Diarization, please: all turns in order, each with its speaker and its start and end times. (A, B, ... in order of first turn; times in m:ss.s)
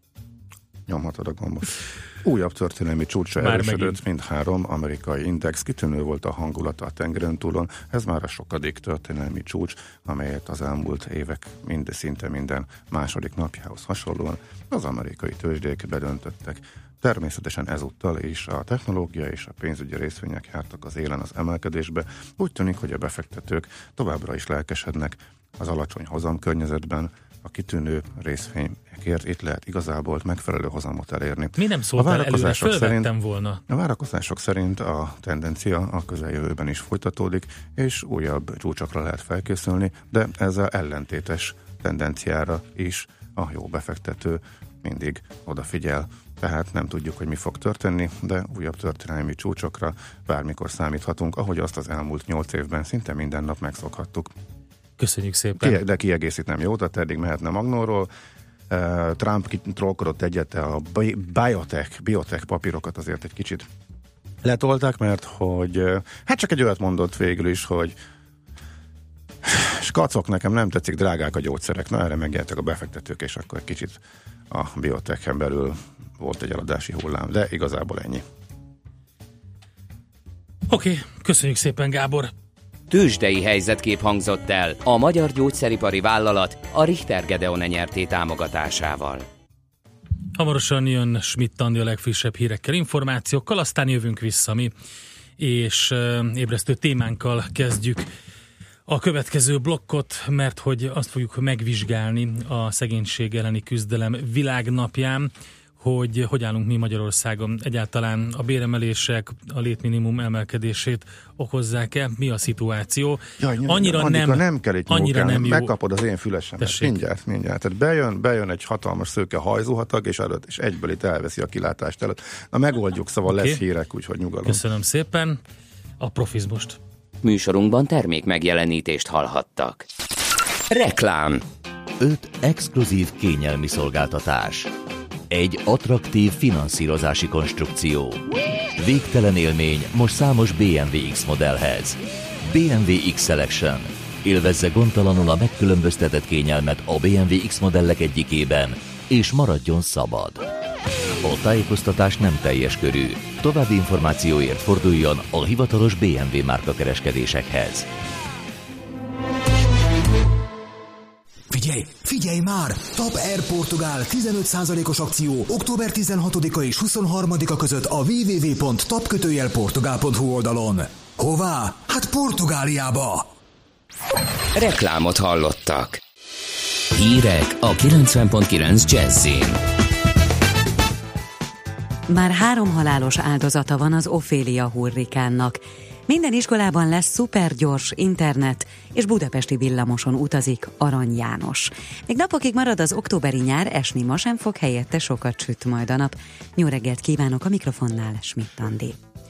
0:00.9-0:33.1 A
0:03.4-0:04.0 B
0:31.6-0:33.6 B
0:33.7-0:54.3 A
0:55.0-0:55.8 B
0:55.6-0:58.1 A
0:58.7-1:03.7 A
1:04.4-1:08.0 A
1:09.4-1:18.2 A
1:20.7-1:22.3 B
1:22.9-1:29.2 C
1:30.3-1:34.7 B
1:35.4-1:38.1 B
1:38.9-1:55.7 B
1:53.4-2:04.6 A
1:56.6-1:57.0 B
2:03.3-2:03.6 B
2:04.4-2:05.4 B
2:06.0-2:06.8 B
2:07.2-2:09.8 C
2:10.7-2:11.4 C
2:12.0-2:14.7 D
2:15.3-2:18.2 D
2:18.8-2:30.4 D
2:31.2-2:37.9 D
2:41.5-2:53.3 E
2:54.5-2:56.0 C
2:56.9-2:59.6 C
3:02.1-3:19.0 F